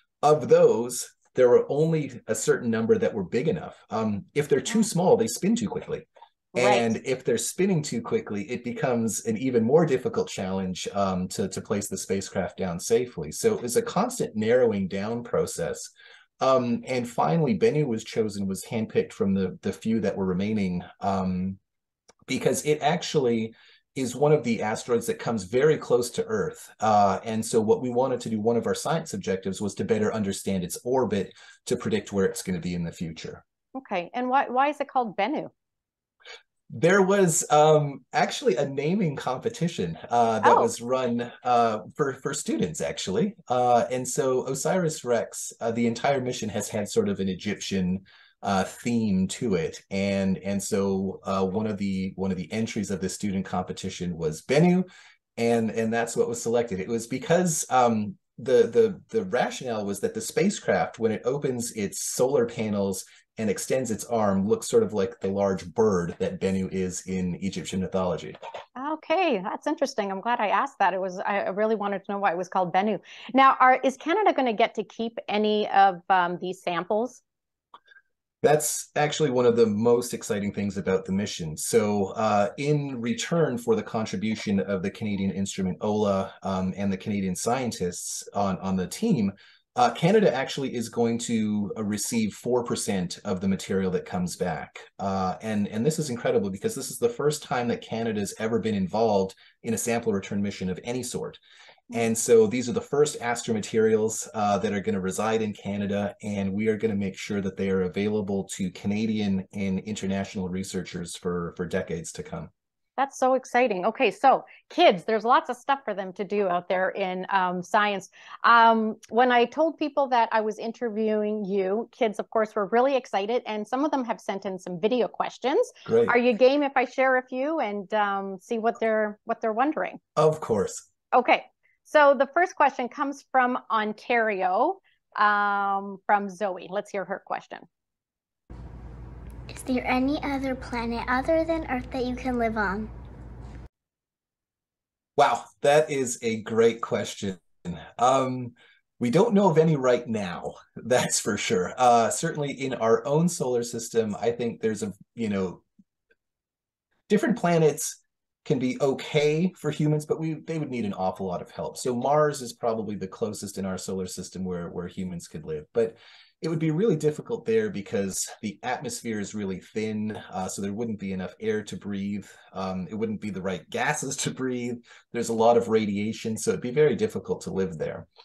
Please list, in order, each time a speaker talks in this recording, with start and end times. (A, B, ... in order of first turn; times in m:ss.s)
0:00.2-0:21.6 A
0:06.5-0:06.9 B
0:22.3-0:33.4 A
0:33.8-0:35.5 B
0:36.7-0:54.9 A
0:40.4-0:40.7 B
0:55.4-1:08.4 A
1:08.8-1:17.2 B
1:18.4-1:41.4 A
1:41.9-1:52.5 A
1:53.0-2:10.0 B
2:05.8-2:06.2 A
2:10.2-2:10.8 A
2:11.1-2:17.7 B
2:19.5-2:22.9 C
2:25.2-2:35.6 A
2:37.1-2:58.1 A